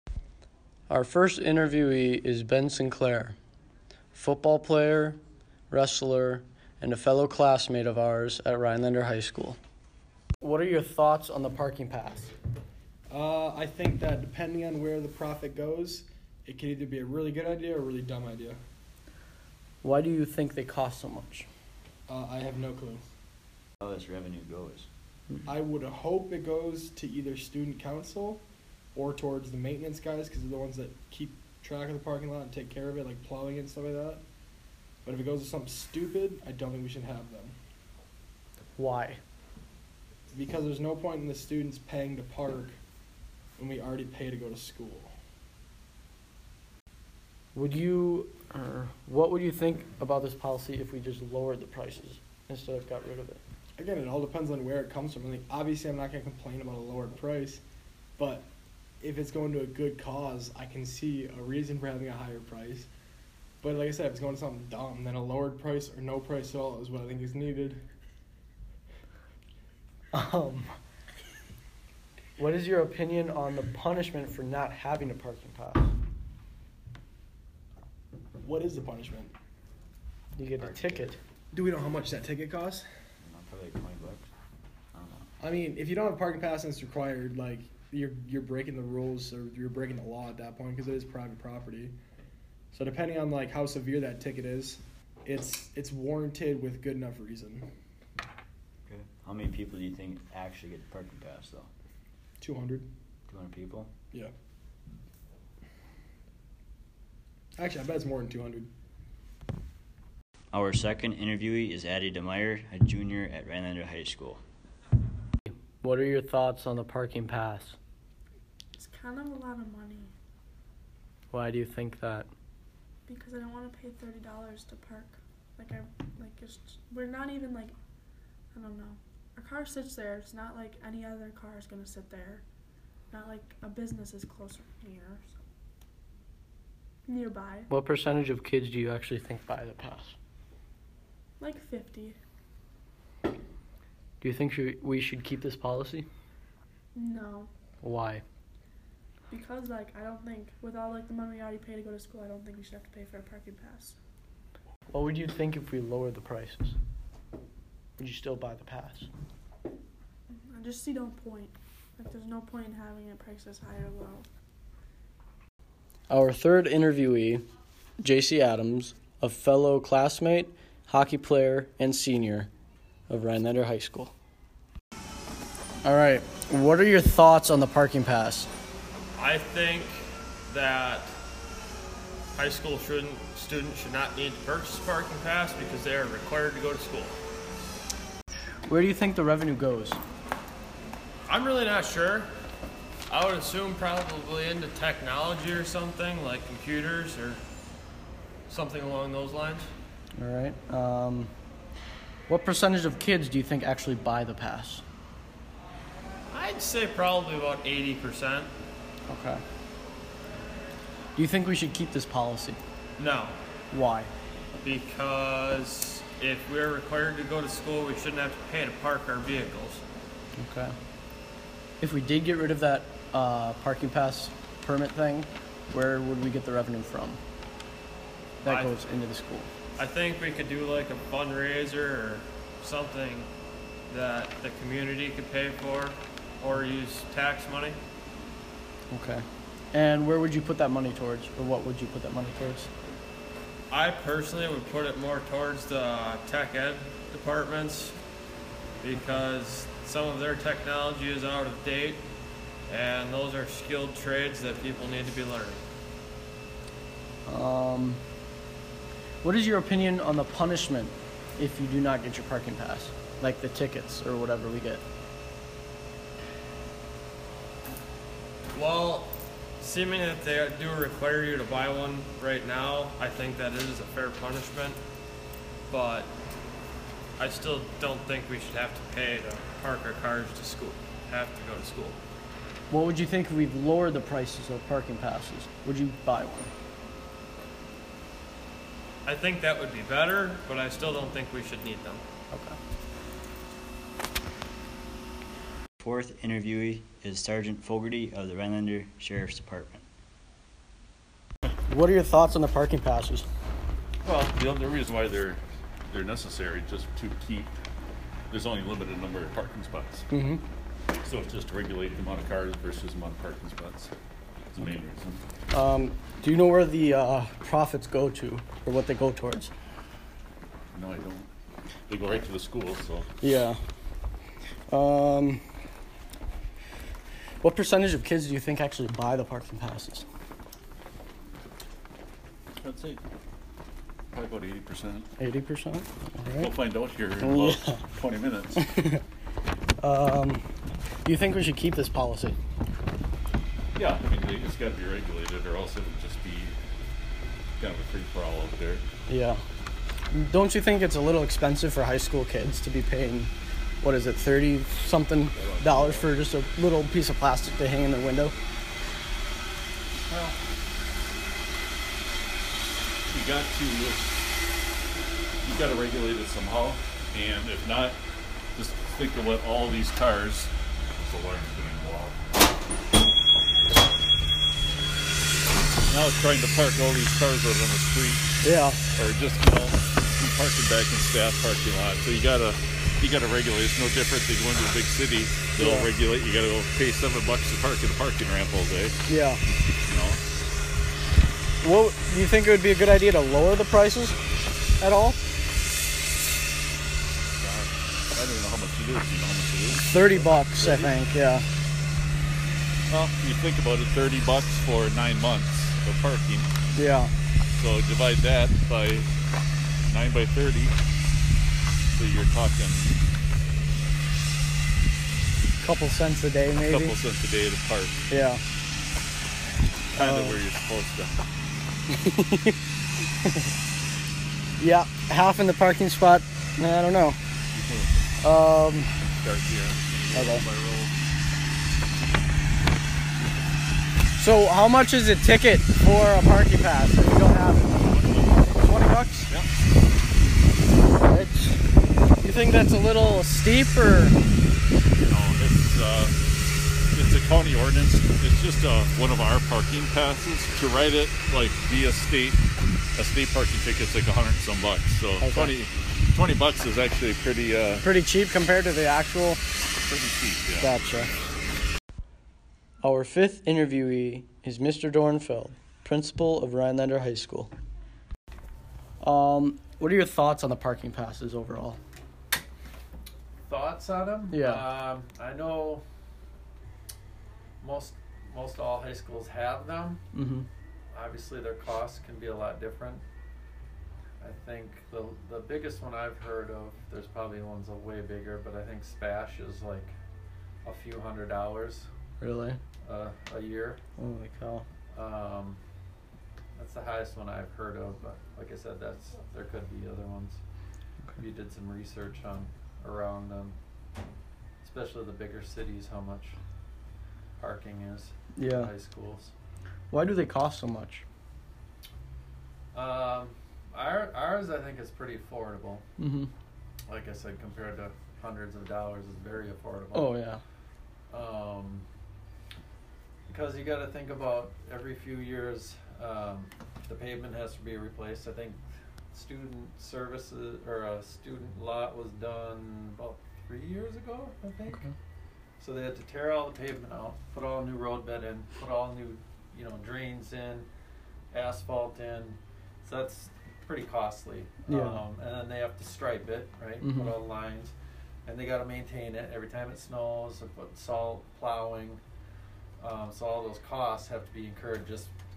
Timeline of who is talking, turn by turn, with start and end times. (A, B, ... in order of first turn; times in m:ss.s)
0:00.9-0:03.4 A
0:04.1-0:09.6 A
0:10.4-0:12.3 A
0:13.1-0:18.6 B
0:19.8-0:21.5 A
0:22.1-0:23.0 B
0:23.8-0:24.9 C
0:25.5-0:28.4 B
0:28.9-0:34.2 B
0:35.0-0:37.6 B
0:38.8-0:39.2 A
0:40.3-0:42.8 B
0:43.6-0:45.1 B
0:47.5-0:53.4 A
0:53.8-0:57.6 B
0:58.2-0:58.5 B
0:59.0-1:02.9 B
1:03.6-1:07.8 B
1:10.1-1:10.7 A
1:12.4-1:15.9 A
1:18.4-1:19.3 B
1:20.4-1:21.2 A
1:20.6-1:21.1 C
1:21.5-1:22.8 B
1:23.2-1:24.3 C
1:24.9-1:25.3 C
1:25.4-1:32.0 B
1:32.7-1:37.7 B
1:38.8-1:41.7 C
1:42.4-1:42.9 B
1:43.3-1:43.9 C
1:47.6-1:48.7 B
1:50.5-1:54.4 C
1:55.8-1:57.8 A
1:58.8-2:00.1 D
2:01.3-2:02.3 A
2:03.1-2:07.7 D
2:08.5-2:12.4 D
2:13.1-2:15.3 D
2:17.1-2:17.7 D
2:17.7-2:20.2 A
2:21.4-2:22.2 D
2:24.2-2:26.1 A
2:26.9-2:27.5 D
2:27.8-2:28.2 A
2:29.3-2:34.0 D
2:34.9-2:36.8 A
2:38.0-2:39.1 A
2:40.3-2:44.2 D
2:46.1-2:47.4 A
2:48.0-2:52.5 A
2:53.1-2:54.1 A
2:55.8-2:58.5 A
2:59.2-3:01.2 E
3:02.3-3:07.2 E
3:08.6-3:10.0 A
3:11.2-3:12.3 E
3:13.1-3:17.4 E
3:18.5-3:19.7 E
3:20.2-3:21.3 A
3:22.3-3:24.8 A
3:26.3-3:28.5 E
3:29.1-3:29.4 A
3:31.1-3:32.6 A
3:33.0-3:33.4 E
3:33.7-3:34.1 A
3:34.6-3:39.8 E
3:40.4-3:40.8 A
3:41.8-3:47.2 A
3:48.4-3:49.5 A
3:48.4-3:48.7 E
3:49.8-3:53.3 E
3:53.9-3:57.8 E
3:58.9-4:02.7 A
4:03.7-4:08.0 E
4:08.8-4:12.1 E
4:12.7-4:15.6 E
4:17.2-4:18.0 A
4:19.2-4:24.8 A
4:28.5-4:34.8 E
4:35.7-4:36.2 E
4:37.2-4:42.0 E
4:42.7-4:46.5 A
4:49.0-4:52.0 E
4:52.3-4:52.6 A
4:55.8-4:59.8 C
5:01.7-5:03.3 A
5:04.0-5:07.6 F
5:08.3-5:10.0 F
5:10.1-5:10.4 A
5:11.0-5:13.9 F
5:14.5-5:15.2 F
5:15.5-5:19.5 A
5:20.7-5:21.3 F
5:21.9-5:23.4 F
5:23.2-5:23.6 A
5:24.7-5:25.4 A
5:27.4-5:30.0 A
5:32.6-5:33.0 F
5:34.1-5:35.1 F
5:35.2-5:36.5 A
5:36.4-5:38.7 F
5:37.2-5:37.8 A
5:38.6-5:39.0 A
5:39.8-5:40.4 A
5:41.0-5:42.4 A
5:43.7-5:46.5 F
5:47.6-5:48.8 F
5:49.1-5:49.4 A
5:50.1-5:58.3 A
5:55.3-5:56.2 F
6:00.0-6:00.4 F
6:03.1-6:04.1 F
6:05.4-6:08.0 F
6:08.6-6:12.2 F
6:15.8-6:18.3 F
6:18.4-6:18.8 A
6:18.9-6:29.0 F
6:25.6-6:25.9 A
6:29.0-6:29.4 A
6:29.8-6:30.2 F
6:31.6-6:34.2 A
6:34.8-6:35.2 A
6:37.4-6:41.0 F
6:39.8-6:41.4 A
6:42.9-6:46.5 F
6:46.7-6:47.1 A
6:47.5-6:49.1 F
6:49.9-6:50.8 F
6:51.9-6:52.9 F
6:55.6-6:57.0 A
6:56.5-6:58.0 F
6:58.1-6:58.4 A
6:59.9-7:01.2 F
7:00.0-7:00.4 A
7:02.0-7:02.5 A
7:04.6-7:07.2 A
7:07.5-7:07.9 F
7:08.2-7:08.9 A
7:09.0-7:10.9 F
7:10.1-7:10.4 A
7:14.2-7:17.9 A
7:17.7-7:19.5 F
7:18.6-7:19.3 A
7:21.0-7:21.6 A
7:22.2-7:24.2 A
7:25.0-7:26.1 F
7:26.9-7:32.4 F
7:33.0-7:37.9 F
7:35.2-7:35.5 A
7:37.8-7:39.4 A
7:39.8-7:40.8 F
7:40.6-7:41.1 A
7:42.8-7:47.5 A
7:49.0-7:51.8 A
7:53.5-7:55.8 G
7:54.3-7:54.6 A
7:57.6-8:00.0 G
8:00.1-8:00.5 A
8:00.9-8:03.0 G
8:04.2-8:09.9 G
8:10.6-8:11.9 G
8:12.2-8:12.6 A
8:12.8-8:13.8 G
8:14.0-8:14.7 A
8:14.9-8:15.6 G
8:16.6-8:20.4 G
8:21.2-8:23.6 G
8:24.6-8:26.4 G
8:27.4-8:29.3 G
8:28.4-8:28.7 A
8:29.9-8:31.0 A
8:32.7-8:35.8 G
8:36.0-8:36.3 A
8:36.9-8:40.2 G
8:39.9-8:40.4 A
8:41.1-8:41.8 G
8:43.3-8:48.6 G
8:49.1-8:54.9 G
8:55.6-9:00.7 G
9:01.3-9:07.7 G
9:04.7-9:05.0 A
9:06.8-9:07.2 A
9:08.2-9:12.0 G
9:12.8-9:15.1 G